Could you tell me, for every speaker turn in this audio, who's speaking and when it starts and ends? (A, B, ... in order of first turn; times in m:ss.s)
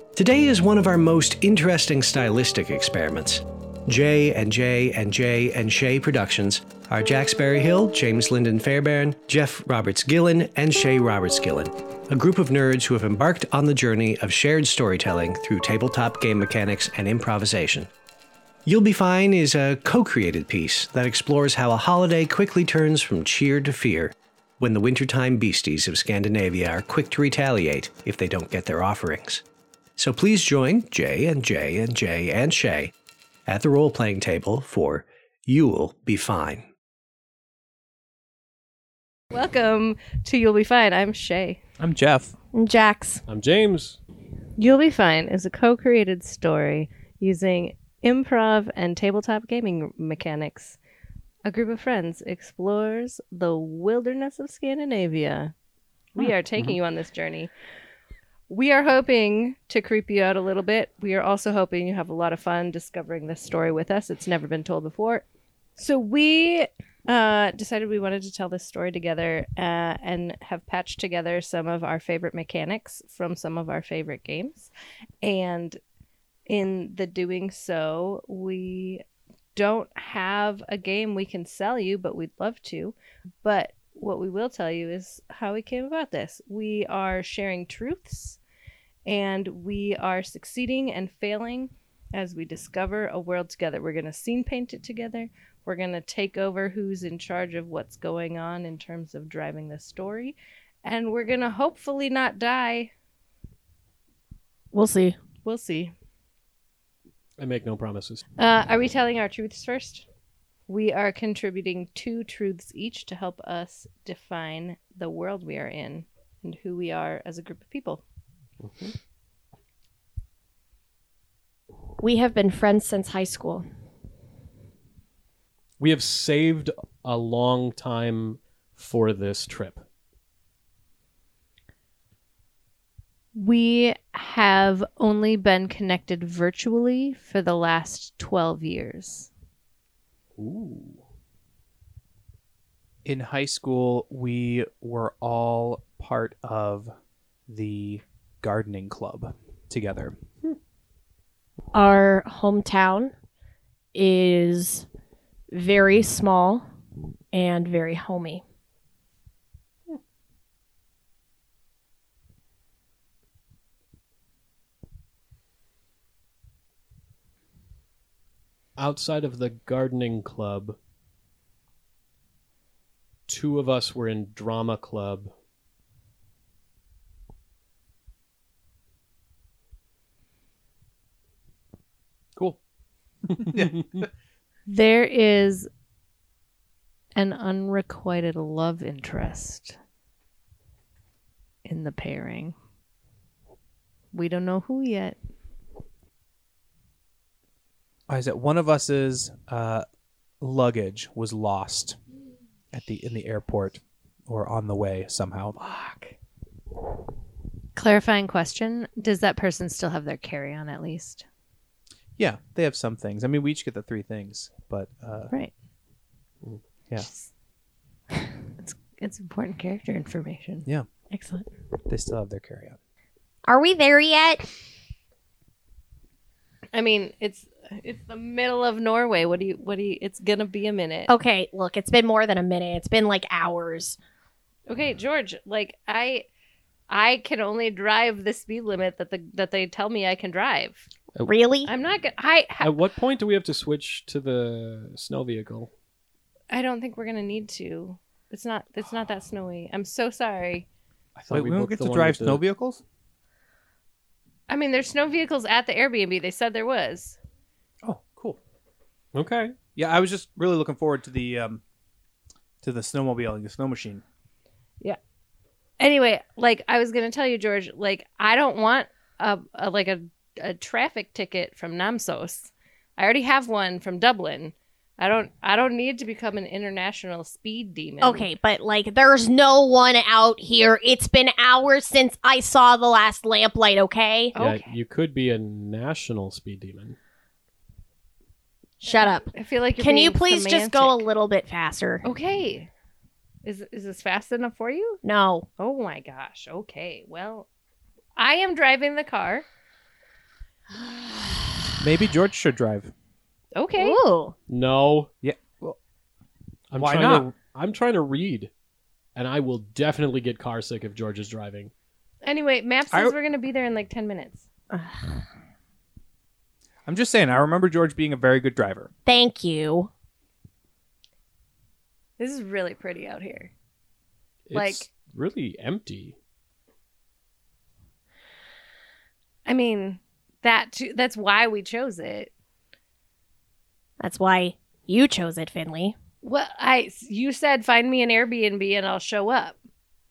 0:00.2-0:17.9 A
0:18.7-0:29.4 A
0:30.0-0:32.9 A
0:33.5-0:36.7 A
0:39.3-0:41.6 B
0:41.8-0:42.3 C
0:42.5-0:43.2 D
0:43.3-0:44.0 E
0:44.6-0:50.8 B
0:51.4-0:55.5 B
0:56.2-0:57.5 B
0:56.2-0:56.8 E
0:58.5-1:05.2 B
1:05.8-1:14.7 B
1:15.2-1:15.8 B
1:16.5-1:19.0 B
1:19.6-1:28.4 B
1:29.1-1:42.9 B
1:44.7-1:45.2 D
1:45.4-1:45.9 B
1:47.4-1:48.2 E
1:48.4-1:50.1 B
1:50.7-1:58.0 B
1:58.6-1:59.0 E
2:02.0-2:03.7 D
2:05.8-2:09.8 E
2:13.3-2:19.3 B
2:20.4-2:21.0 E
2:23.0-2:26.9 C
2:27.5-2:30.2 C
2:31.7-2:33.1 D
2:33.9-2:34.9 D
2:35.5-2:36.7 D
2:37.3-2:38.4 D
2:48.8-2:50.8 E
2:53.3-2:55.3 E
3:03.3-3:04.1 C
3:03.6-3:03.8 E
3:04.7-3:05.7 B
3:07.2-3:09.8 B
3:11.6-3:12.6 B
3:14.1-3:15.2 B
3:18.1-3:19.8 C
3:20.4-3:22.0 C
3:22.7-3:25.6 C
3:25.6-3:26.1 B
3:27.8-3:31.2 B
3:32.2-3:35.3 C
3:37.0-3:37.3 B
3:38.6-3:40.7 B
3:41.1-3:41.5 D
3:41.9-3:42.8 C
3:43.5-3:44.5 D
3:46.7-3:51.1 B
3:51.1-3:54.0 D
3:54.7-3:56.3 B
3:56.9-4:00.9 B
4:01.2-4:01.7 D
4:01.7-4:02.8 B
4:02.6-4:05.7 E
4:06.5-4:10.7 B
4:11.2-4:12.4 E
4:11.3-4:12.8 C
4:14.5-4:17.2 B
4:17.8-4:18.4 C
4:19.1-4:19.6 E
4:19.8-4:21.6 C
4:22.6-4:24.0 C
4:25.8-4:38.3 B
4:38.0-4:44.4 D
4:44.4-4:44.7 B
4:44.4-4:47.0 E
4:48.8-4:52.0 D
4:49.0-4:51.1 B
4:52.0-4:52.7 B
4:53.4-4:55.0 B
4:55.0-4:55.5 D
4:55.6-4:57.5 B
4:58.2-4:59.4 B
5:01.0-5:01.3 D
5:01.8-5:02.9 C
5:03.6-5:04.0 B
5:03.8-5:04.4 D
5:04.5-5:05.1 E
5:05.2-5:05.8 C
5:06.7-5:08.5 E
5:06.8-5:07.3 C
5:09.2-5:11.7 E
5:12.2-5:14.4 B
5:14.7-5:15.2 D
5:16.9-5:18.9 C
5:19.1-5:19.9 D
5:22.2-5:23.5 B
5:24.5-5:26.2 E
5:24.5-5:24.9 B
5:29.5-5:32.3 B
5:34.0-5:36.0 D
5:36.2-5:39.6 B